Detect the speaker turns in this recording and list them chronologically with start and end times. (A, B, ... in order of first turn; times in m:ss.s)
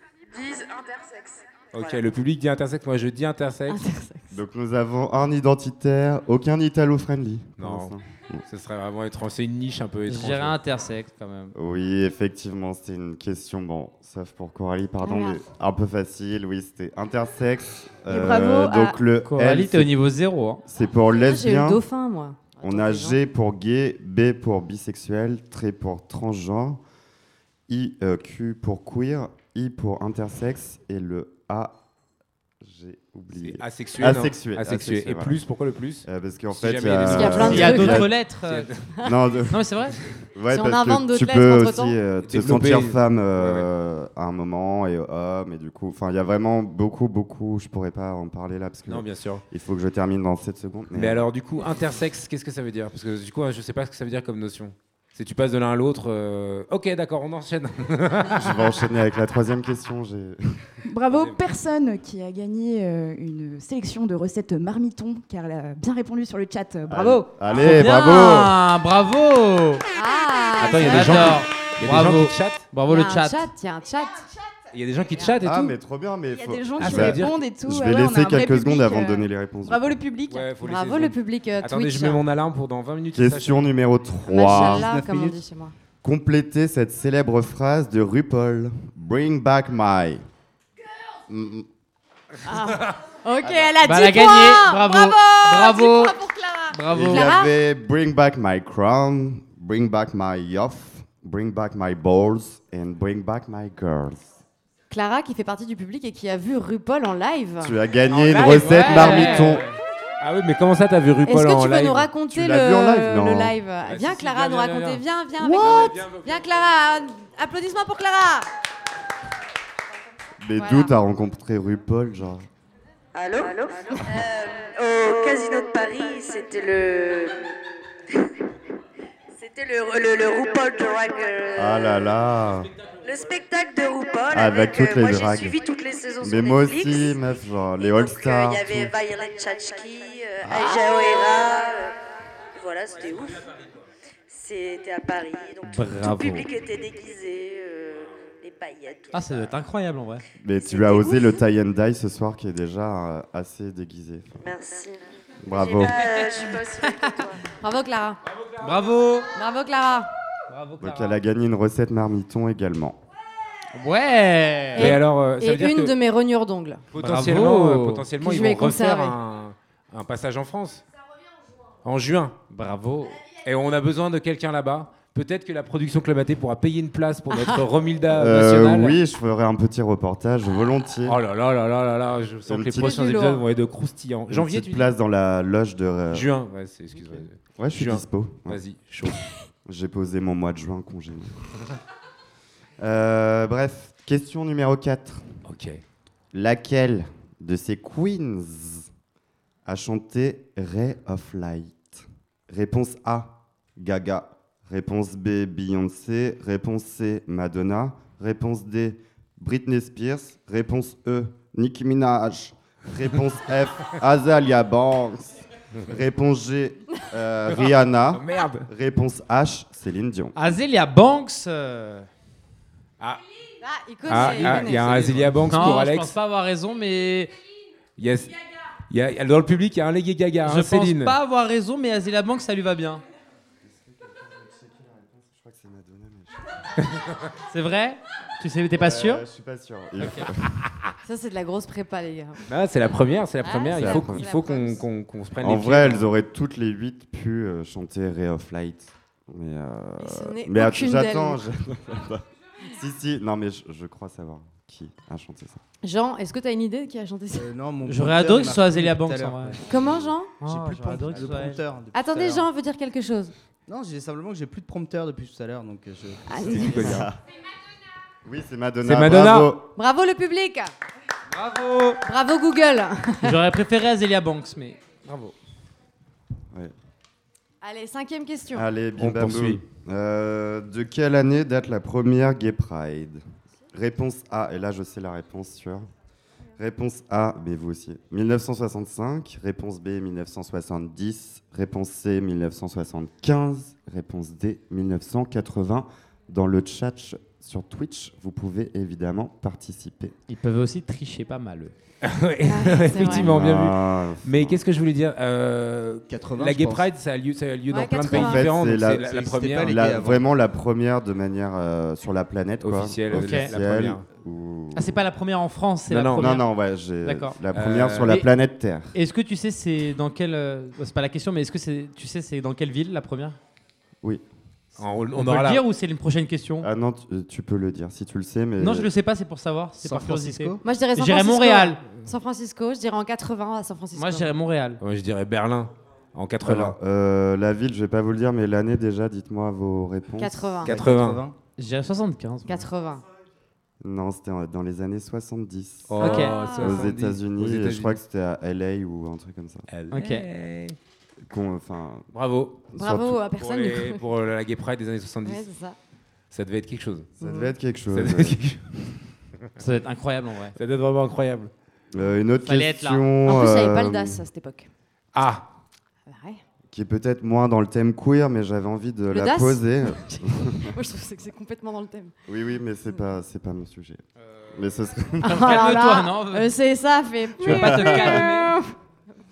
0:00.3-0:01.4 A
0:01.7-0:03.8 B
0:03.7-0:04.4 C
0:04.3-0:08.4 D
0:07.6-0:08.0 B
0:08.5-0:10.6 B
0:10.1-0:11.5 E
0:11.6-0:19.9 D
0:15.0-0:15.4 C
0:18.1-0:18.8 C
0:18.4-0:18.7 F
0:19.2-0:20.6 E
0:20.6-0:21.8 D
0:21.1-0:23.2 C
0:22.6-0:26.8 D
0:27.7-0:31.8 D
0:32.6-0:35.4 D
0:33.4-0:38.8 B
0:36.1-0:38.1 D
0:37.1-0:38.1 C
0:37.3-0:38.7 E
0:39.0-0:39.7 D
0:39.5-0:40.0 E
0:40.2-0:51.2 D
0:40.5-0:42.0 C
0:42.2-0:43.7 B
0:48.9-0:49.4 B
0:51.0-0:58.5 B
0:58.4-1:00.8 D
1:00.9-1:07.4 F
1:01.0-1:01.4 B
1:06.9-1:08.5 D
1:07.5-1:09.8 E
1:10.0-1:11.4 C
1:10.6-1:12.6 B
1:10.8-1:13.5 E
1:12.9-1:14.3 C
1:14.7-1:15.7 B
1:15.4-1:19.8 D
1:16.3-1:19.3 F
1:16.8-1:17.4 B
1:19.6-1:22.2 C
1:20.3-1:23.7 B
1:23.1-1:24.9 D
1:24.3-1:25.7 C
1:24.4-1:25.4 G
1:26.0-1:30.2 D
1:31.3-1:31.7 D
1:32.4-1:37.5 C
1:33.8-1:36.2 E
1:36.7-1:37.3 E
1:36.9-1:44.3 D
1:44.9-1:47.8 C
1:47.6-1:49.6 D
1:48.1-1:49.6 B
1:48.3-1:49.7 E
1:48.6-1:49.4 C
1:50.2-1:52.1 B
1:51.3-1:58.5 C
1:52.3-1:53.6 D
1:53.8-1:56.5 B
1:55.4-1:56.0 F
2:00.4-2:02.5 D
2:00.6-2:00.9 C
2:03.1-2:07.5 A
2:09.4-2:12.2 A
2:11.6-2:12.7 D
2:13.0-2:17.2 A
2:14.3-2:15.6 D
2:16.2-2:18.9 D
2:17.8-2:21.9 A
2:20.4-2:21.0 D
2:22.5-2:23.5 A
2:24.3-2:29.5 A
2:25.7-2:26.5 E
2:29.1-2:30.2 E
2:30.4-2:34.3 D
2:30.7-2:31.2 A
2:30.8-2:31.0 C
2:34.4-2:37.4 A
2:35.4-2:36.1 D
2:36.4-2:36.8 C
2:37.6-2:38.2 C
2:38.3-2:38.7 B
2:38.6-2:39.3 E
2:39.4-2:40.1 C
2:40.5-2:41.2 E
2:40.8-2:43.0 D
2:43.8-2:45.0 E
2:44.8-2:45.9 B
2:44.8-2:46.8 C
2:47.0-2:50.8 B
2:47.0-2:48.0 E
2:48.2-2:49.2 C
2:51.8-2:52.4 B
2:52.5-2:53.2 E
2:53.4-2:59.0 B
2:57.3-2:57.6 C
2:58.1-3:01.2 D
3:01.1-3:04.9 B
3:02.5-3:03.0 D
3:02.8-3:03.4 C
3:04.3-3:06.3 D
3:06.1-3:09.3 B
3:07.6-3:08.6 D
3:09.7-3:11.4 D
3:12.8-3:15.3 D
3:15.4-3:15.8 B
3:16.3-3:18.9 D
3:19.6-3:40.3 D
3:37.5-3:38.7 B
3:40.4-3:42.1 E
3:43.6-3:45.7 C
3:44.1-3:46.1 B
3:44.2-3:44.7 E
3:45.4-3:47.3 E
3:48.0-3:48.3 B
3:48.9-3:51.2 B
3:50.4-3:53.0 E
3:53.6-3:56.6 D
3:57.5-3:59.2 E
3:58.8-4:00.6 D
4:01.0-4:02.4 C
4:02.5-4:06.1 B
4:03.4-4:04.8 C
4:03.7-4:04.2 D
4:05.4-4:15.6 D
4:10.0-4:11.4 C
4:15.8-4:17.5 C
4:17.3-4:22.5 G
4:17.8-4:19.6 E
4:19.7-4:20.3 C
4:20.4-4:21.6 E
4:21.9-4:23.4 C
4:23.7-4:27.1 G
4:26.3-4:26.9 C
4:26.6-4:27.2 D
4:28.2-4:29.7 D
4:28.8-4:29.5 B
4:29.8-4:30.7 C
4:31.3-4:32.0 E
4:32.0-4:33.3 C
4:33.2-4:35.4 E
4:37.6-4:38.7 C
4:38.5-4:45.9 D
4:39.0-4:39.6 B
4:46.6-5:00.2 D
5:00.3-5:01.7 E
5:02.0-5:09.9 B
5:02.5-5:03.3 C
5:03.0-5:04.6 D
5:06.1-5:06.9 G
5:07.7-5:08.4 C
5:08.1-5:14.9 D
5:09.0-5:10.3 G
5:12.6-5:14.0 B
5:13.1-5:13.5 E
5:14.8-5:16.5 E
5:15.9-5:16.4 B
5:16.2-5:19.0 D
5:17.0-5:17.4 E
5:17.5-5:18.2 B
5:18.9-5:23.4 E
5:24.8-5:25.6 B
5:25.2-5:26.7 E
5:26.6-5:28.9 D
5:28.6-5:31.8 E
5:29.8-5:30.6 G
5:30.6-5:34.3 C
5:34.0-5:34.8 E
5:34.8-5:36.8 B
5:36.4-5:40.8 D
5:40.2-5:40.7 C
5:40.6-5:41.3 G
5:40.7-5:41.2 B
5:41.6-5:42.6 E
5:42.5-5:43.0 C
5:43.8-5:49.7 D
5:45.9-5:48.0 B
5:46.0-5:46.3 E
5:46.0-5:46.8 C
5:49.7-5:50.8 B
5:49.9-5:50.3 E
5:51.2-5:52.1 D
5:52.1-5:52.6 B
5:52.8-5:54.0 C
5:52.8-5:53.2 D
5:53.3-5:55.4 B
5:55.2-5:55.8 C
5:56.3-5:57.1 B
5:57.2-5:57.5 C
5:57.2-5:58.4 D
5:57.9-5:58.6 B
5:59.6-6:00.6 E
6:00.6-6:01.5 B
6:01.9-6:04.2 D
6:02.5-6:03.0 E
6:03.2-6:04.7 C
6:05.2-6:05.5 B
6:06.1-6:06.4 C
6:06.7-6:10.7 D
6:09.1-6:12.2 C
6:12.3-6:15.3 D
6:15.2-6:18.7 C
6:15.3-6:16.5 E
6:17.4-6:18.2 D
6:17.4-6:18.5 E